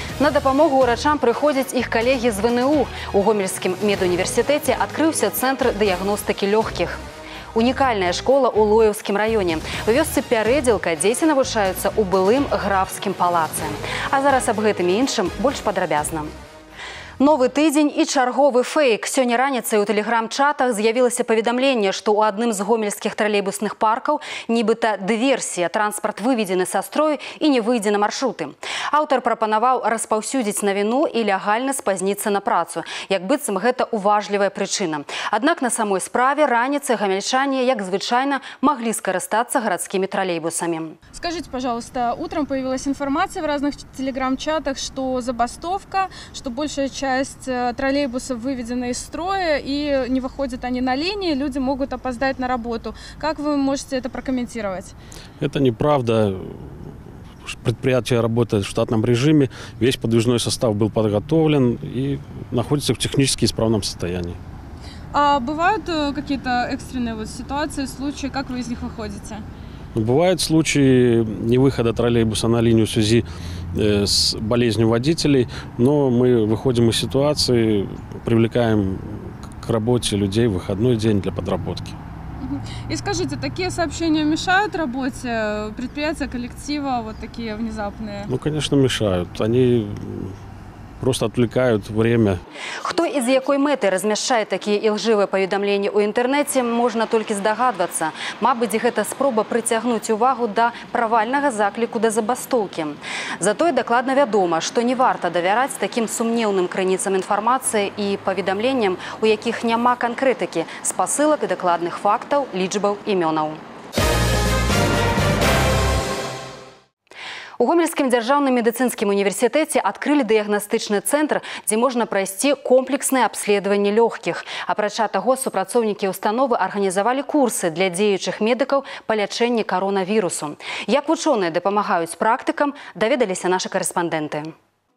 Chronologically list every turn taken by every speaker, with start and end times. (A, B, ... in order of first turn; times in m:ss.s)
0:00.2-0:07.0 A
0:07.5-0:16.3 A
0:17.2-0:41.0 A
0:41.1-0:55.0 B
0:55.4-0:56.7 C
0:57.4-1:04.4 C
1:05.1-1:09.4 B
1:10.0-1:22.0 C
1:22.4-1:28.3 B
1:28.3-1:30.4 C
1:31.0-1:32.4 C
1:32.8-1:53.6 A
1:57.6-2:14.5 A